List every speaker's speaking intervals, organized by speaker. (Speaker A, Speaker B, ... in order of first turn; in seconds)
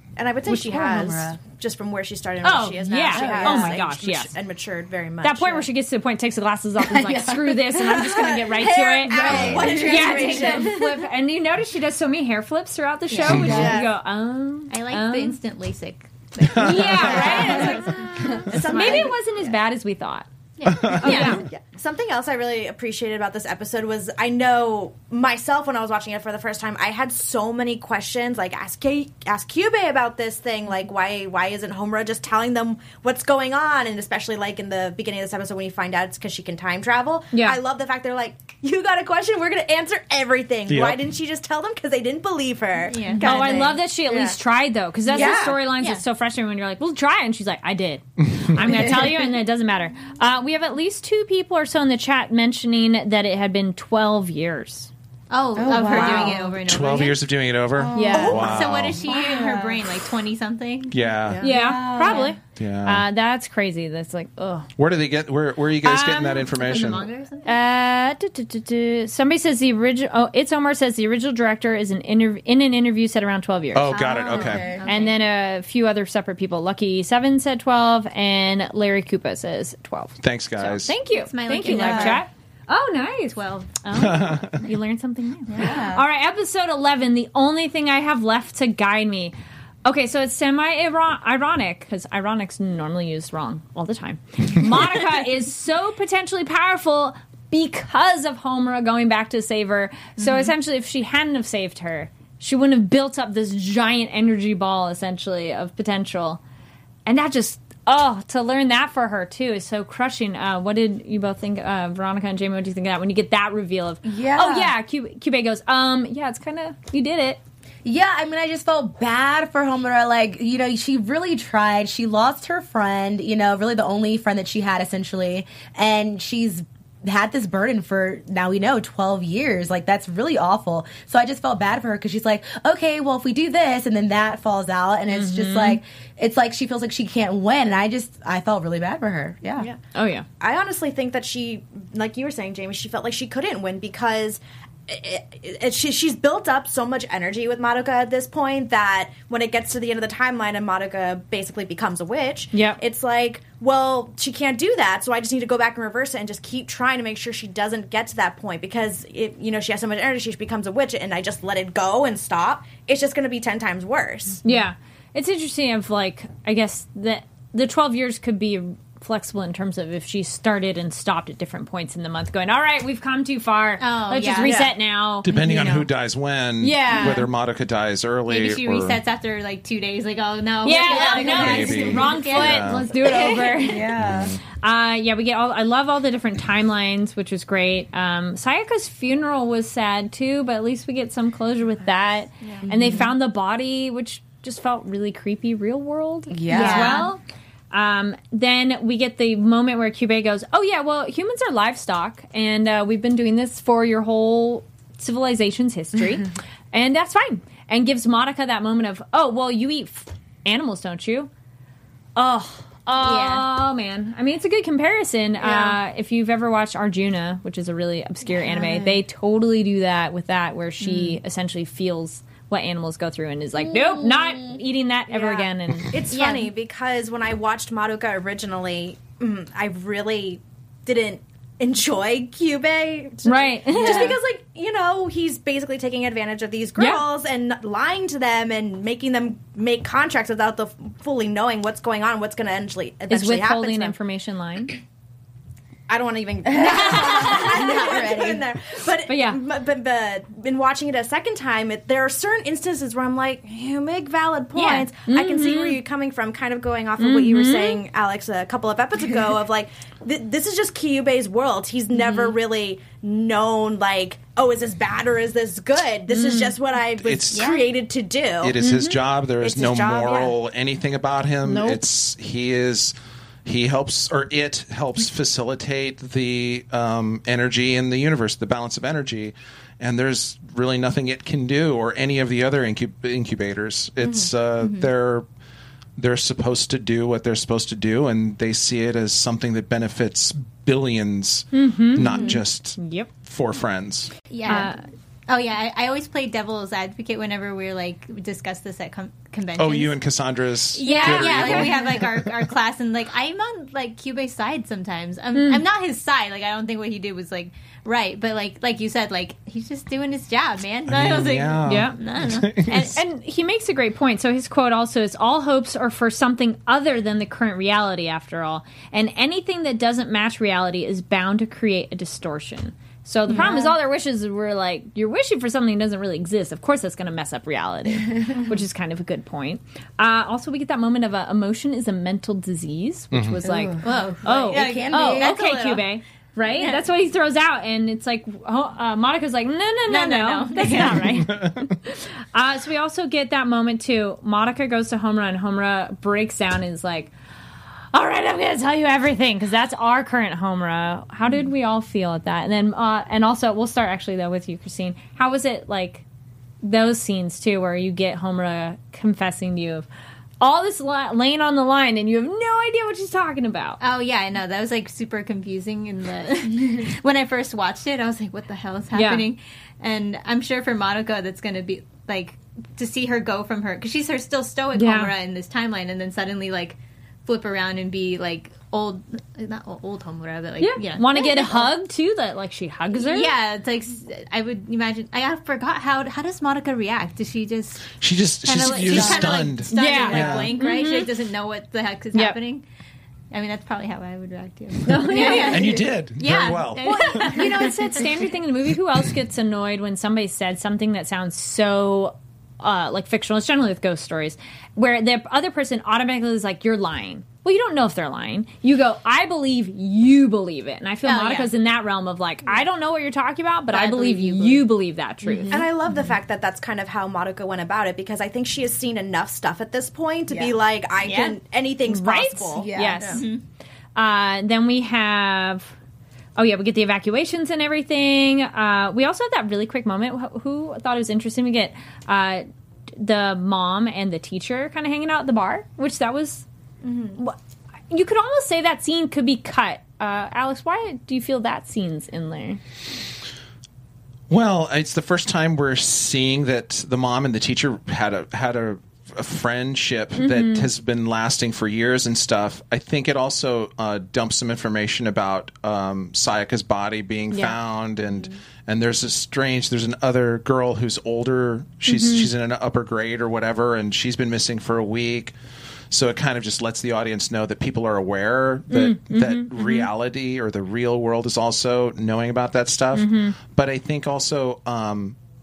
Speaker A: 0.2-5.7, 9.1-10.8, 13.4-13.9, 17.1-19.2, 21.0-44.4, 45.1-45.6, 55.7-56.5, 58.0-58.8, 140.4-164.4, 174.4-174.7, 215.4-215.7, 225.1-243.9, 245.9-268.6, 269.4-270.3, 415.5-423.1
Speaker B: 0.5-1.3, 2.4-4.3, 5.2-15.4, 16.6-20.3, 20.9-21.4, 37.3-37.6, 43.2-54.9, 57.9-58.4, 61.4-64.7, 65.8-66.5, 67.4-74.0, 74.8-106.4, 107.0-117.4, 135.1-135.8, 139.9-140.2, 152.5-152.8, 164.4-175.3, 176.6-177.3, 180.6-183.9, 184.6-197.2, 197.7-211.3, 212.2-225.9, 233.2-234.1, 236.8-237.1, 243.1-244.8, 249.1-249.4, 254.6-255.8, 257.0-257.8, 266.1-266.5, 268.6-269.0, 271.4-271.8, 291.5-293.1, 294.5-294.8, 300.8-301.8, 305.3-305.6, 311.6-312.0, 312.7-347.1, 347.9-356.0, 356.6-359.9, 360.4-363.8, 368.9-369.2, 374.8-375.1, 380.6-383.3, 389.7-391.1, 394.9-395.6, 396.8-415.6, 421.9-423.2, 423.9-425.7, 426.4-432.4, 433.0-436.4, 437.9-442.6, 450.2-450.7, 457.3-457.6, 461.9-462.3, 468.7-469.9, 472.9-473.4
Speaker C: 0.7-1.2, 3.1-3.7, 6.8-10.8, 13.4-13.7, 48.6-49.1, 55.5-56.6, 57.8-58.4, 59.0-59.8, 61.3-62.3, 74.2-74.9, 81.6-82.2, 85.5-86.0, 114.0-114.7, 117.8-139.7, 175.3-175.9, 183.3-184.3, 192.6-193.1, 196.3-197.1, 218.3-219.0, 223.6-224.6, 233.7-234.2, 246.5-248.4, 261.9-262.4, 323.3-323.7, 333.4-335.4, 389.0-389.3, 415.2-415.7, 420.3-420.6, 422.6-423.2
Speaker D: 9.3-9.6, 13.3-13.8, 16.4-17.7, 20.6-21.4, 40.7-41.0, 48.2-48.8, 56.6-59.0, 60.9-61.5, 62.5-63.0, 64.8-67.1, 73.7-74.7, 80.2-81.0, 84.0-84.6, 175.2-179.0, 181.2-182.9, 184.0-184.4, 267.0-267.5, 268.4-272.9, 273.4-285.2, 286.0-294.1, 299.6-302.3, 310.9-313.0, 333.1-333.4, 340.8-341.8, 387.9-390.6, 395.0-397.5, 444.3-465.3, 465.9-475.1
Speaker E: 13.1-13.5, 14.7-19.1, 20.6-21.4, 42.9-43.3, 45.1-46.0, 55.3-57.2, 58.3-61.0, 66.5-67.5, 73.9-75.2, 81.1-82.2, 83.3-83.8, 173.8-174.6, 178.3-183.6, 192.4-192.7, 196.5-197.1, 213.0-213.5, 220.8-221.2, 226.1-226.5, 267.3-267.6, 284.6-284.9, 294.3-300.0, 300.7-313.0, 333.8-335.9, 336.5-336.8, 339.9-341.2, 363.8-381.7, 383.0-392.6, 393.3-398.0, 411.0-411.5, 413.7-414.6, 421.0-421.4, 423.1-423.4, 436.8-437.2